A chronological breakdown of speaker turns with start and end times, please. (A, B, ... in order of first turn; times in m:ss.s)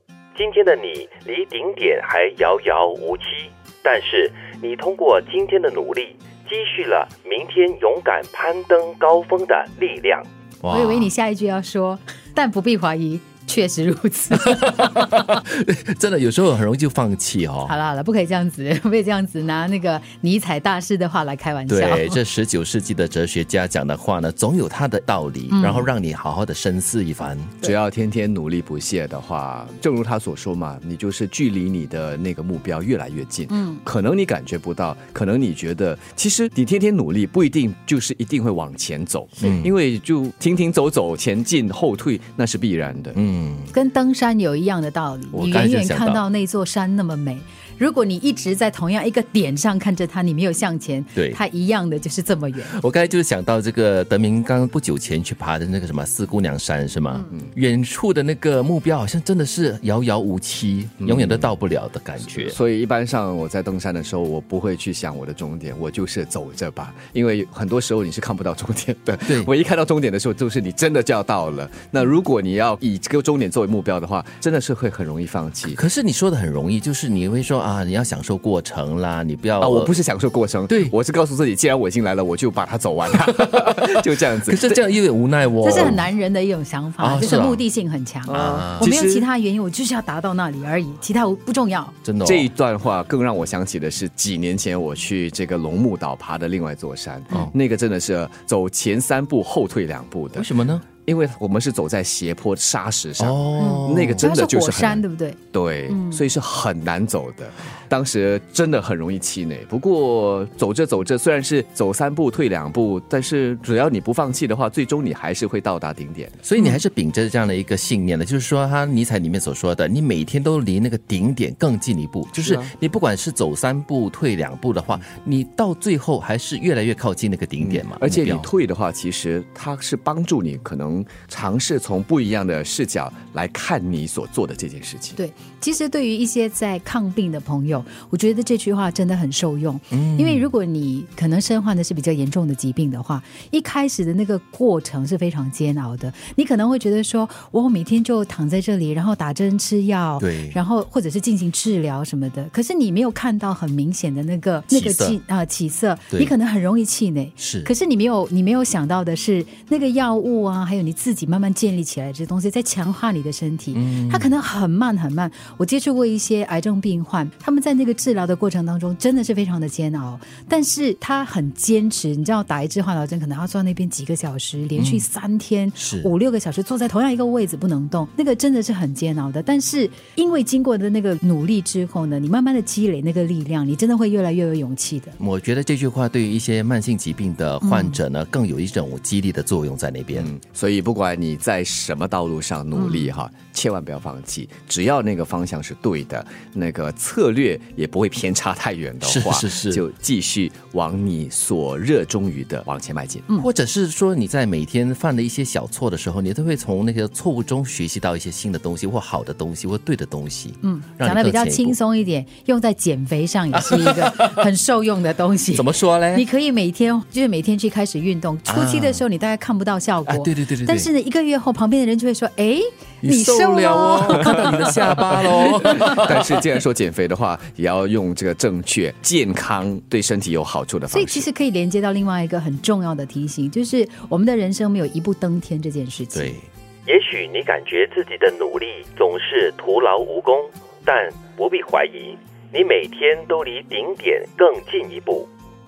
0:00.4-0:10.3 A
0:10.6-0:11.1 B
0:10.7-0:14.8 C
0:14.3-0:17.7 B
0:17.6-0:22.2 C
0:21.7-0:27.6 B
0:25.5-0:25.9 C
0:27.6-0:43.2 D
0:33.5-0:33.8 C
0:39.4-0:39.7 B
0:43.1-0:43.7 B
0:43.7-0:52.8 C
0:45.3-0:46.2 B
0:51.2-0:51.4 B
0:52.7-1:02.6 B
1:01.0-1:01.5 D
1:02.2-1:15.8 D
1:15.6-1:19.9 B
1:19.6-1:24.8 D
1:24.4-1:26.1 B
1:25.6-1:32.0 C
1:27.0-1:27.6 B
1:28.3-1:29.3 D
1:28.3-1:28.9 B
1:32.0-1:32.5 B
1:32.2-1:56.4 D
1:40.4-1:40.9 B
1:43.2-1:44.3 B
1:43.6-1:45.4 C
1:45.9-1:46.2 C
1:56.4-2:08.5 B
2:02.3-2:02.7 D
2:07.6-2:15.2 D
2:15.2-3:05.2 C
2:19.9-2:20.4 B
2:30.2-2:30.6 B
2:34.7-2:35.2 B
2:37.4-2:37.7 B
2:43.7-2:44.3 B
2:54.8-2:55.1 B
2:55.8-2:56.1 B
3:05.2-3:10.3 B
3:07.6-3:08.0 C
3:10.1-3:23.3 D
3:12.8-3:13.1 C
3:19.0-3:19.8 B
3:23.4-3:31.8 B
3:30.6-3:45.1 C
3:33.5-3:34.4 B
3:35.5-3:36.3 B
3:38.5-3:39.0 B
3:40.1-3:40.9 B
3:43.0-3:46.4 B
3:44.8-3:51.3 D
3:50.9-3:56.4 C
3:56.1-3:56.5 B
3:56.9-4:05.3 A